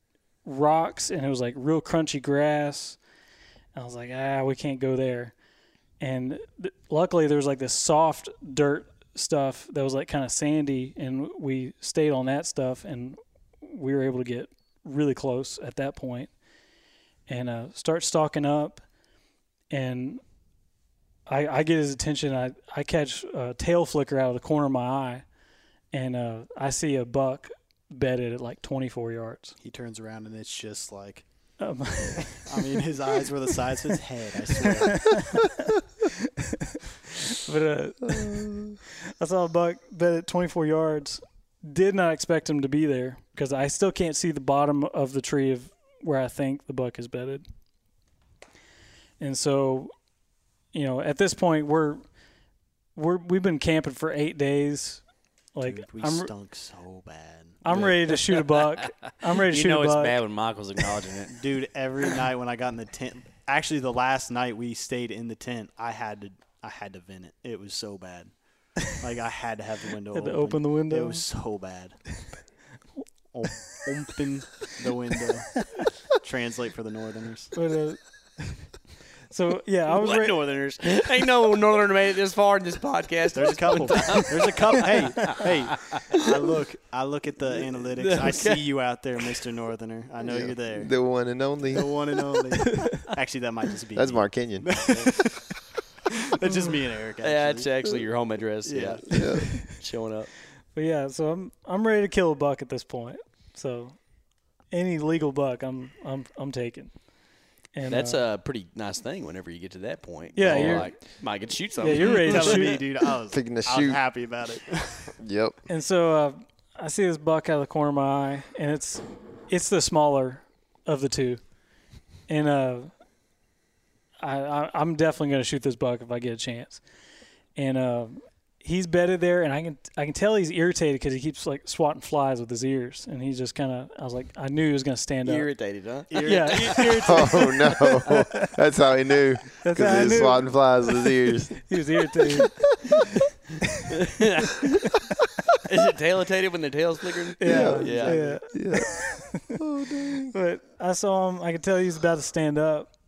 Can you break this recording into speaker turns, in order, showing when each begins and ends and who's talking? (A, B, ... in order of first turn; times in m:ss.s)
0:00.4-0:03.0 A
0:03.7-0:05.3 A
0:06.0-0:16.3 A
0:17.3-0:18.8 A
0:19.7-0:20.2 A
0:21.3-0:25.2 A
0:25.9-0:29.6 A
0:29.6-0:31.2 B
0:31.6-0:32.6 A
0:32.4-0:35.4 B
0:34.6-0:36.1 A
0:36.6-0:47.4 A
0:38.1-0:38.7 C
0:49.2-0:49.9 A
0:50.7-0:52.0 A
0:53.0-0:55.0 A
0:55.6-0:56.3 A
0:55.6-0:57.6 B
0:57.6-1:00.2 A
0:57.7-0:58.4 D
0:59.5-1:01.4 D
1:01.3-1:08.3 B
1:08.8-1:12.0 B
1:10.1-1:11.3 A
1:13.3-1:17.6 B
1:17.5-1:18.0 A
1:19.3-1:20.4 A
1:19.9-1:26.2 D
1:23.3-1:30.9 B
1:27.6-1:28.7 D
1:30.2-1:31.9 C
1:31.7-1:35.5 B
1:33.9-1:35.2 C
1:36.2-1:37.7 B
1:37.2-1:40.3 D
1:38.6-1:39.5 B
1:39.1-1:39.5 C
1:40.7-1:44.0 A
1:44.7-1:46.9 A
1:47.7-1:48.2 A
1:47.9-1:52.7 D
1:50.4-1:51.0 A
1:50.5-1:50.9 C
1:51.8-1:52.8 A
1:52.2-1:55.2 B
1:53.3-1:54.0 C
1:55.2-1:55.6 C
1:55.7-2:01.4 A
2:02.3-2:02.9 A
2:04.2-2:06.8 A
2:07.6-2:15.5 A
2:15.2-2:17.5 D
2:16.1-2:17.1 B
2:16.2-2:18.5 A
2:17.0-2:22.6 C
2:19.6-2:20.6 A
2:21.7-2:22.6 A
2:24.0-2:24.7 D
2:25.7-2:28.3 D
2:27.4-2:29.6 A
2:27.4-2:30.4 C
2:27.8-2:28.4 B
2:30.3-2:32.9 A